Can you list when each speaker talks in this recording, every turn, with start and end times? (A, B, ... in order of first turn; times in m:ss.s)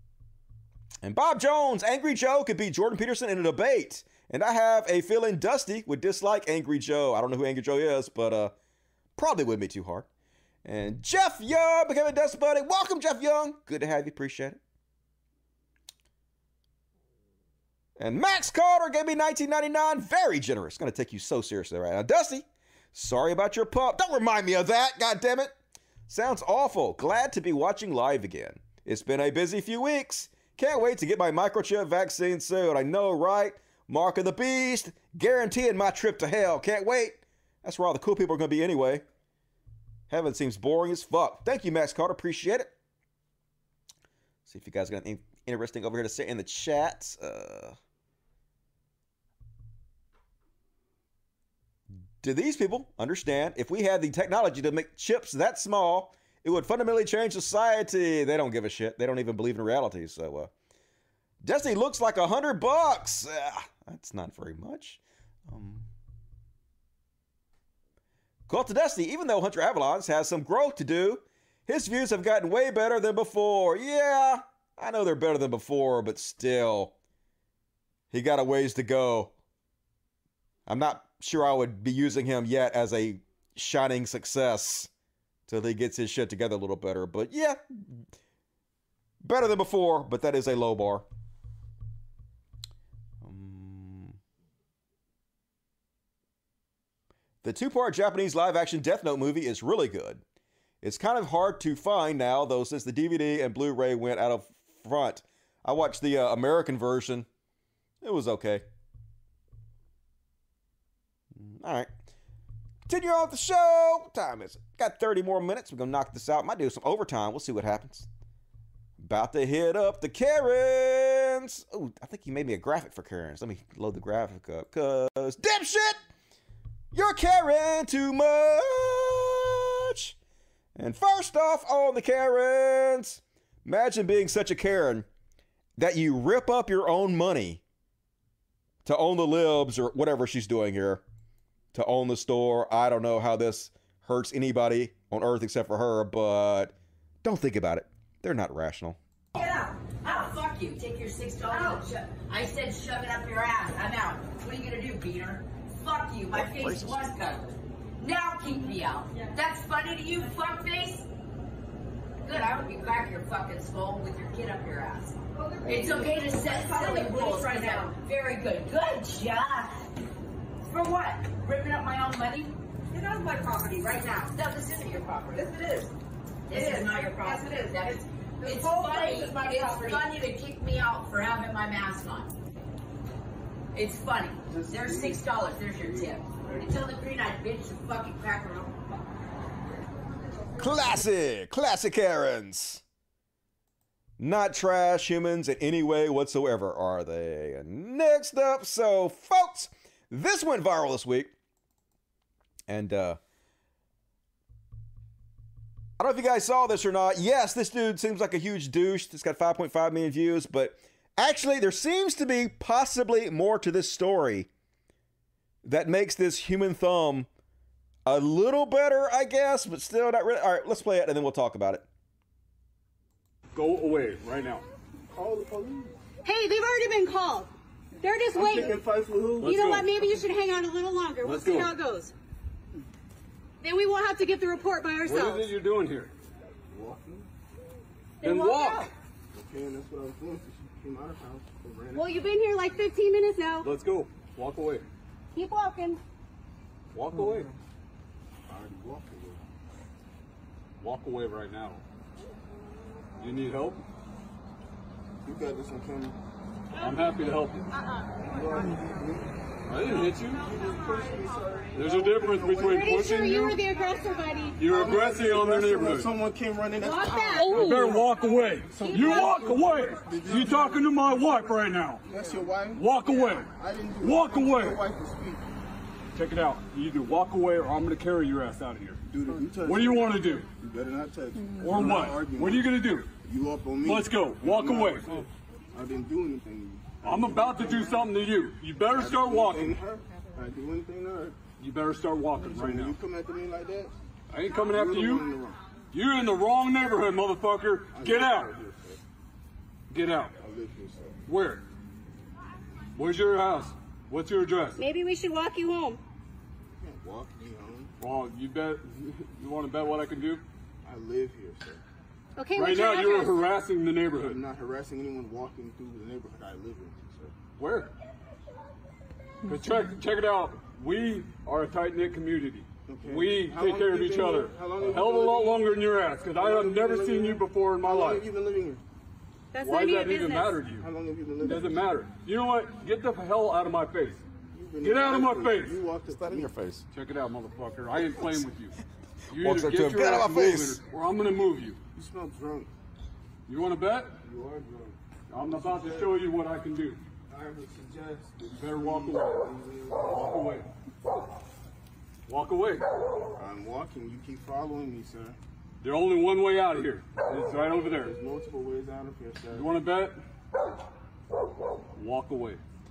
0:01.0-0:08.5 A
0:09.2-0:10.1 A
0:10.6-0:14.6 A
0:18.0-0:25.5 A
0:26.1-0:39.0 A
0:40.1-0:42.7 A
0:44.5-0:47.8 A
0:52.2-1:00.5 A
1:01.4-1:05.9 A
1:08.5-1:16.9 A
1:18.1-1:19.3 A
1:20.7-1:24.9 A
1:25.5-1:28.0 A
1:29.2-1:31.1 A
1:33.2-1:34.2 A
1:37.4-1:40.2 A
1:40.8-1:47.3 A
1:48.0-1:48.7 A
1:51.4-1:51.9 A
1:52.9-1:58.1 A
1:59.0-2:06.0 A
2:06.9-2:10.2 A
2:10.8-2:15.1 A
2:15.8-2:17.6 A
2:18.8-2:21.0 A
2:21.7-2:29.0 A
2:29.4-2:41.1 B
2:36.3-2:37.1 A
2:42.2-2:49.9 B
2:50.7-2:55.9 B
2:56.5-3:02.4 B
3:03.7-3:08.9 B
3:10.6-3:12.8 A
3:14.2-3:21.3 A
3:22.7-3:23.2 A
3:26.0-3:34.5 A
3:35.6-3:37.3 A
3:38.1-3:41.9 A
3:43.5-3:44.6 C
3:45.1-3:45.9 D
3:46.2-3:47.5 E
3:48.0-3:48.8 E
3:48.3-3:50.2 D
3:49.4-3:49.8 C
3:49.4-3:52.1 E
3:51.2-3:51.7 C
3:53.6-3:55.5 E
3:55.0-3:56.1 C
3:56.7-3:57.3 D
3:58.2-3:58.8 E
3:58.2-3:58.9 C
3:59.3-4:02.1 D
4:02.0-4:03.7 E
4:03.6-4:04.9 C
4:05.4-4:06.0 E
4:06.9-4:07.5 C
4:08.5-4:09.4 D
4:10.8-4:11.8 C
4:13.2-4:13.8 C
4:15.2-4:16.2 D
4:16.8-4:17.6 C
4:18.3-4:23.0 D
4:19.7-4:20.4 C
4:21.8-4:23.6 C
4:22.7-4:24.6 E
4:24.6-4:26.1 C
4:24.6-4:28.1 D
4:26.8-4:27.8 E
4:27.6-4:32.0 C
4:28.6-4:31.3 D
4:29.0-4:29.4 E
4:32.0-4:35.4 D
4:32.8-4:33.5 C
4:34.0-4:34.8 C
4:36.2-4:39.0 C
4:39.1-4:48.2 D
4:39.6-4:40.5 C
4:41.6-4:43.1 C
4:43.8-4:45.2 C
4:47.0-4:49.8 C
4:48.9-4:51.5 D
4:51.6-4:53.0 C
4:52.3-4:54.0 D
4:54.3-4:55.3 C
4:54.6-4:55.6 D
4:55.9-4:58.5 C
4:57.8-4:59.0 D
4:59.9-5:00.3 C
5:00.4-5:01.1 D
5:01.3-5:01.6 C
5:03.0-5:04.8 C
5:04.8-5:06.0 E
5:06.8-5:08.0 D
5:08.0-5:10.4 C
5:10.8-5:11.8 D
5:12.4-5:13.4 E
5:12.6-5:14.4 C
5:14.1-5:17.4 D
5:17.6-5:17.9 C
5:19.5-5:28.2 C
5:22.9-5:28.8 D
5:29.5-5:30.6 E
5:29.6-5:30.8 C
5:30.6-5:32.1 D
5:31.4-5:34.2 C
5:34.5-5:36.6 D
5:34.8-5:35.7 C
5:36.1-5:36.8 A
5:36.9-5:38.8 C
5:39.3-5:41.8 C
5:39.4-5:40.8 A
5:41.9-5:42.7 D
5:43.5-5:44.1 C
5:44.2-5:46.2 D
5:45.3-5:47.0 C
5:47.3-5:50.6 D
5:48.6-5:49.4 C
5:50.2-5:50.6 C
5:52.3-5:52.8 C
5:53.4-5:55.4 D
5:55.8-5:58.2 C
5:57.8-5:59.8 D
5:59.5-6:00.2 C
6:02.0-6:02.6 C